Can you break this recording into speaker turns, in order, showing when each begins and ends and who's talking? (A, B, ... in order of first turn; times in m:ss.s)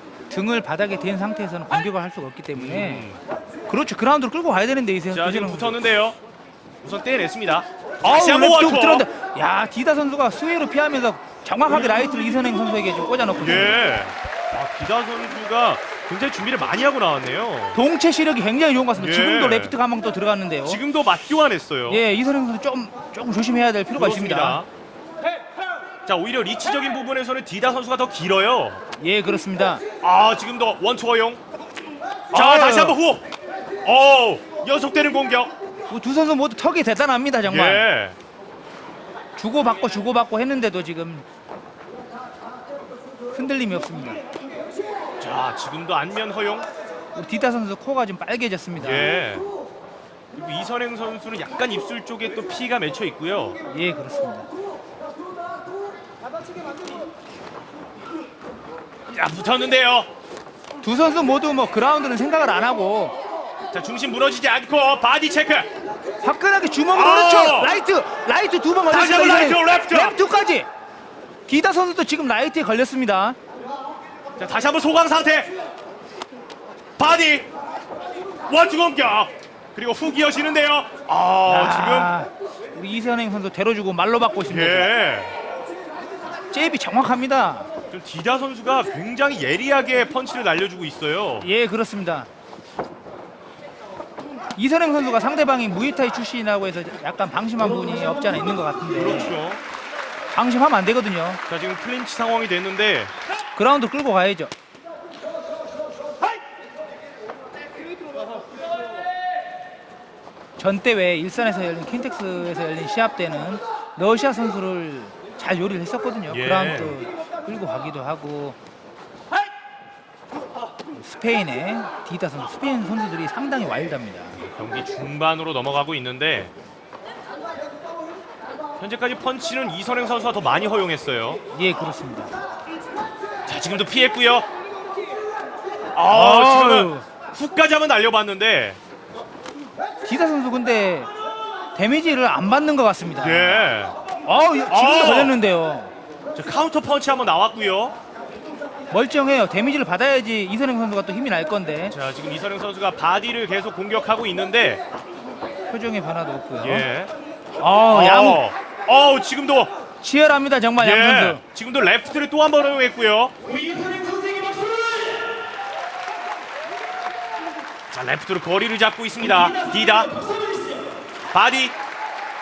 0:00.3-0:03.1 A
0:02.5-0:03.2 B
0:03.7-0:05.8 A
0:05.1-0:06.2 B
0:06.8-0:09.1 B
0:08.0-0:13.8 A
0:13.4-0:17.8 B
0:17.7-0:20.8 A
0:19.0-0:19.8 B
0:20.7-0:22.0 B
0:21.9-0:24.6 A
0:23.9-0:24.7 B
0:26.0-0:28.8 B
0:29.0-0:29.8 A
0:30.0-0:31.4 B
0:32.3-0:33.0 A
0:32.3-0:33.2 B
0:33.8-0:35.5 B
0:35.9-0:37.9 A
0:37.4-0:38.2 B
0:39.4-0:41.2 A
0:43.3-0:44.2 A
0:45.2-0:46.7 B
0:47.2-0:49.2 A
0:48.8-0:49.5 B
0:50.3-0:53.6 B
0:53.7-0:54.5 A
0:59.1-1:00.1 B
1:00.8-1:03.2 A
1:03.7-1:05.7 B
1:06.2-1:10.7 A
1:06.9-1:07.8 B
1:08.8-1:10.2 B
1:11.5-1:13.4 A
1:14.4-1:15.5 B
1:17.0-1:17.5 B
1:18.5-1:22.1 B
1:21.5-1:24.9 A
1:24.5-1:25.4 B
1:26.5-1:27.7 A
1:27.9-1:31.5 B
1:31.4-1:32.3 A
1:34.6-1:39.4 A
1:38.9-1:39.6 B
1:40.3-1:41.4 A
1:41.5-1:43.1 B
1:43.5-1:44.5 A
1:50.6-1:58.6 A
1:56.3-1:57.0 B
2:01.0-2:04.4 A
2:04.5-2:06.5 B
2:08.8-2:11.4 B
2:11.5-2:12.3 A
2:13.5-2:14.5 B
2:15.9-2:18.8 B
2:16.1-2:17.1 A
2:20.0-2:21.1 A
2:21.8-2:23.7 A
2:23.2-2:24.0 B
2:24.2-2:25.9 A
2:24.7-2:25.4 B
2:26.3-2:27.9 B
2:28.9-2:32.0 A
2:31.9-2:34.8 B
2:35.7-2:36.9 A
2:36.6-2:37.1 B
2:37.6-2:38.4 A
2:37.9-2:39.7 B
2:40.0-2:41.4 A
2:40.8-2:43.3 B
2:47.9-2:50.2 B
2:51.3-2:51.8 B